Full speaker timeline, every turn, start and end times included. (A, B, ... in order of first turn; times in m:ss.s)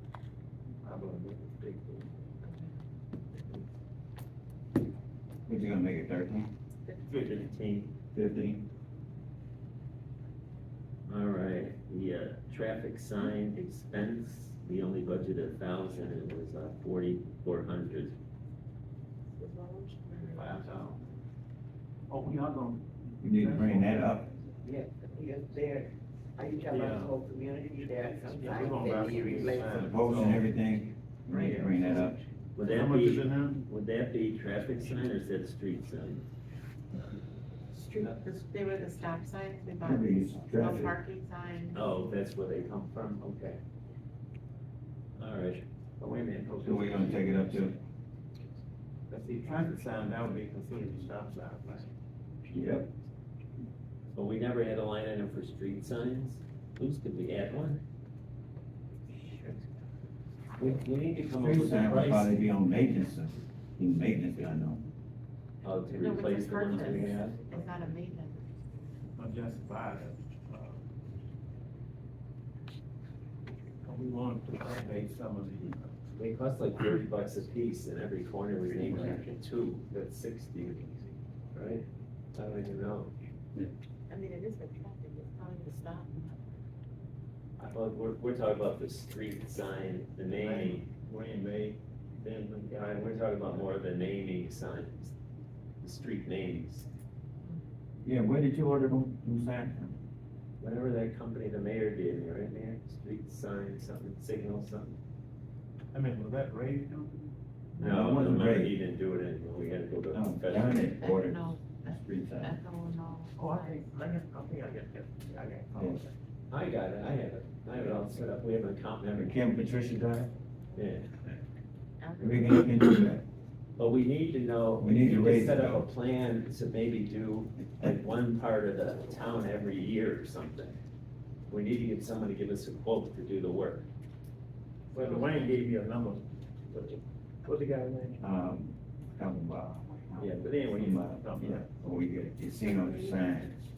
0:00.8-0:02.3 A
0:02.4-0:02.9 B
0:03.4-0:03.6 A
0:05.5-0:06.5 C
0:06.8-0:07.5 B
0:07.1-0:07.4 A
0:07.2-0:07.9 D
0:08.1-0:08.6 C
0:11.1-0:18.2 D
0:19.3-0:20.7 B
0:20.3-0:21.1 A
0:22.1-0:24.2 A
0:23.2-0:24.3 C
0:24.6-0:29.9 E
0:26.6-0:27.1 A
0:28.2-0:30.4 A
0:29.7-0:32.2 C
0:31.3-0:31.9 D
0:32.5-0:36.3 D
0:32.6-0:33.6 A
0:37.7-0:41.9 B
0:39.8-0:41.0 C
0:41.7-0:43.6 D
0:45.2-0:45.6 D
0:46.0-0:47.7 A
0:46.6-0:47.7 C
0:49.1-0:51.9 A
0:52.5-0:52.9 C
0:54.1-0:57.8 D
1:00.6-1:02.4 D
1:01.4-1:04.8 C
1:05.6-1:07.6 D
1:05.9-1:09.0 B
1:09.2-1:10.8 A
1:13.8-1:16.0 A
1:16.1-1:21.0 D
1:21.5-1:21.8 D
1:22.3-1:23.1 D
1:24.1-1:26.5 B
1:27.6-1:30.8 D
1:30.2-1:33.6 A
1:32.7-1:35.1 D
1:35.8-1:36.9 D
1:38.0-1:40.0 C
1:40.6-1:45.0 D
1:45.9-1:47.3 A
1:47.8-1:48.7 C
1:47.8-1:50.9 D
1:50.1-1:52.5 C
1:51.0-1:53.9 B
1:53.4-1:56.1 A
1:55.8-1:56.0 C
1:56.5-1:59.5 D
1:59.1-2:00.3 C
2:00.8-2:01.1 D
2:02.0-2:02.7 B
2:02.2-2:03.2 C
2:03.8-2:10.8 D
2:04.8-2:05.9 C
2:11.5-2:13.9 D
2:14.9-2:18.2 A
2:15.0-2:15.5 B
2:18.2-2:23.6 C
2:20.2-2:21.1 D
2:21.1-2:21.7 A
2:22.6-2:23.2 B